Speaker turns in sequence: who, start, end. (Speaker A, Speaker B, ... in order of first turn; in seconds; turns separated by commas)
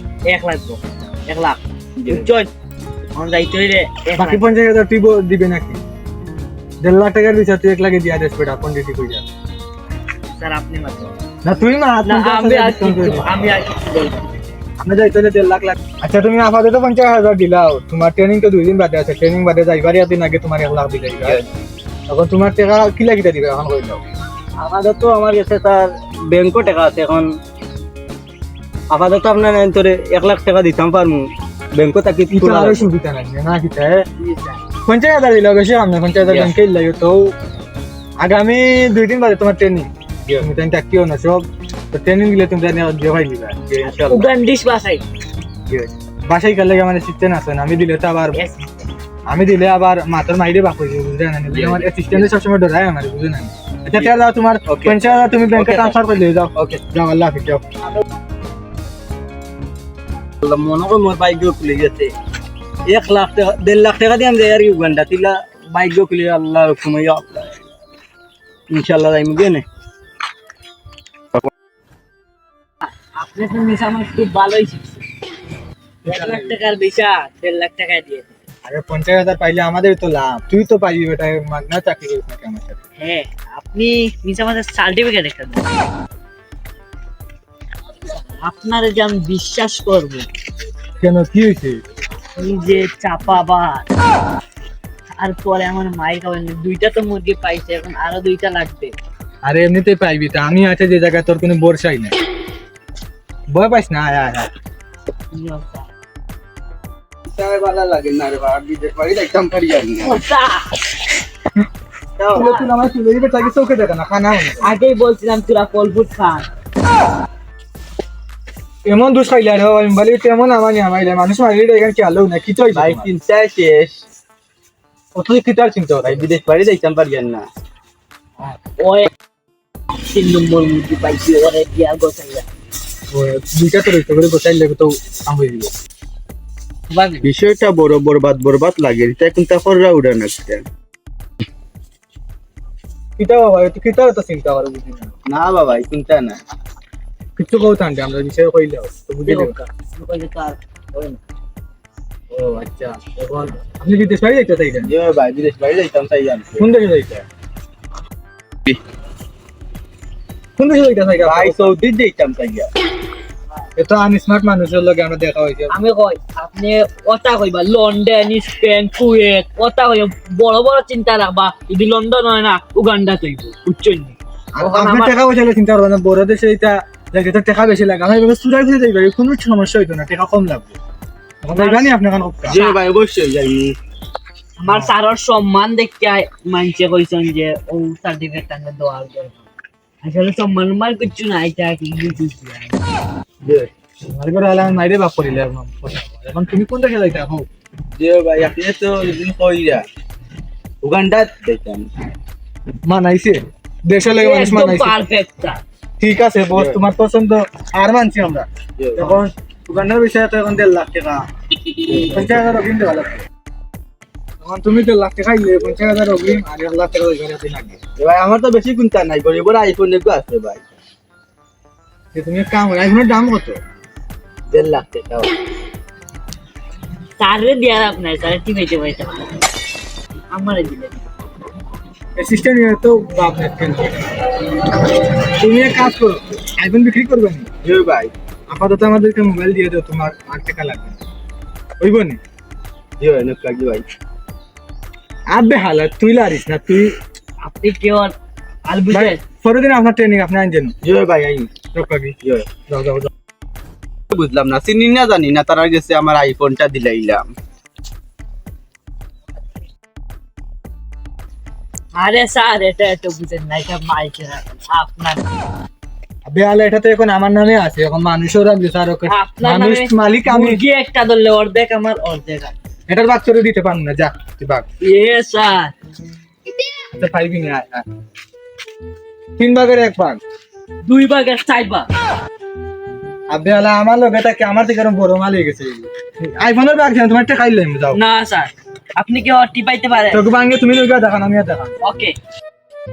Speaker A: 0.2-2.5, Speaker B: 2.0-2.2, Speaker A: 3.1-4.4, Speaker C: 4.2-5.8, Speaker C: 6.8-9.2, Speaker A: 10.2-11.2, Speaker C: 11.4-13.3, Speaker A: 12.1-14.2, Speaker C: 14.8-21.4, Speaker C: 22.1-24.0, Speaker B: 24.6-27.3, Speaker B: 28.9-32.9, Speaker C: 32.3-34.0, Speaker A: 34.2-34.6, Speaker C: 34.9-37.3, Speaker B: 36.2-36.5, Speaker C: 38.2-43.7, Speaker B: 43.7-44.3, Speaker A: 43.8-45.0, Speaker C: 46.3-48.4, Speaker A: 48.3-48.7, Speaker C: 49.3-57.6, Speaker B: 51.5-52.3, Speaker B: 53.9-56.0, Speaker B: 56.5-56.8, Speaker B: 60.4-62.1, Speaker B: 62.9-67.5, Speaker B: 68.7-69.7, Speaker A: 72.8-75.0, Speaker C: 76.1-76.5, Speaker A: 76.1-78.3, Speaker C: 78.6-82.8, Speaker A: 83.0-85.7, Speaker A: 88.1-90.3, Speaker C: 91.0-91.8, Speaker A: 92.4-93.9, Speaker A: 95.2-99.0, Speaker C: 99.4-102.2, Speaker C: 103.5-104.5, Speaker A: 105.3-105.9, Speaker B: 107.4-110.1, Speaker A: 110.0-110.7, Speaker B: 112.2-112.5, Speaker C: 112.3-114.7, Speaker A: 112.3-112.7, Speaker A: 114.6-116.5, Speaker C: 118.8-123.1, Speaker B: 122.7-124.0, Speaker C: 125.2-126.3, Speaker B: 126.0-127.5, Speaker A: 128.4-129.1, Speaker A: 130.0-132.5, Speaker C: 133.1-135.7, Speaker A: 136.9-137.3, Speaker B: 137.2-140.6, Speaker C: 143.2-145.1, Speaker B: 145.3-146.4, Speaker C: 147.4-149.5, Speaker A: 149.3-151.2, Speaker C: 152.3-154.9, Speaker B: 154.8-156.7, Speaker C: 156.6-157.2, Speaker C: 160.6-161.8, Speaker B: 161.2-162.7, Speaker C: 163.8-165.7, Speaker A: 165.7-175.2, Speaker C: 174.6-180.8, Speaker C: 181.4-182.6, Speaker A: 181.5-181.9, Speaker A: 182.5-182.8, Speaker B: 182.5-183.8, Speaker A: 184.6-189.4, Speaker A: 190.0-192.8, Speaker C: 194.1-197.5, Speaker B: 198.0-199.8, Speaker B: 200.8-201.9, Speaker C: 202.9-204.9, Speaker A: 204.1-205.6, Speaker C: 206.0-211.2, Speaker B: 206.5-206.8, Speaker B: 208.8-209.3, Speaker B: 211.9-212.4, Speaker C: 212.1-213.3, Speaker C: 214.4-217.8, Speaker B: 218.0-220.6, Speaker C: 222.1-223.6, Speaker B: 224.5-225.3, Speaker A: 227.2-229.4, Speaker A: 230.3-231.0, Speaker C: 232.2-234.1, Speaker C: 235.3-237.5, Speaker B: 237.6-238.1, Speaker C: 238.5-241.0, Speaker C: 241.8-242.2, Speaker B: 243.0-243.8, Speaker C: 245.3-246.9, Speaker A: 247.4-248.2, Speaker A: 248.7-249.2, Speaker C: 248.9-250.7, Speaker B: 250.8-251.7, Speaker C: 251.7-253.1, Speaker B: 252.2-252.6, Speaker B: 254.1-257.2, Speaker A: 261.9-265.3, Speaker C: 266.3-270.6, Speaker A: 269.1-272.5, Speaker C: 272.9-274.6, Speaker A: 274.8-275.7, Speaker C: 277.0-277.9, Speaker C: 279.4-280.2, Speaker A: 280.9-281.9, Speaker C: 283.3-288.0, Speaker A: 287.9-290.2, Speaker C: 290.1-291.7, Speaker A: 291.8-292.1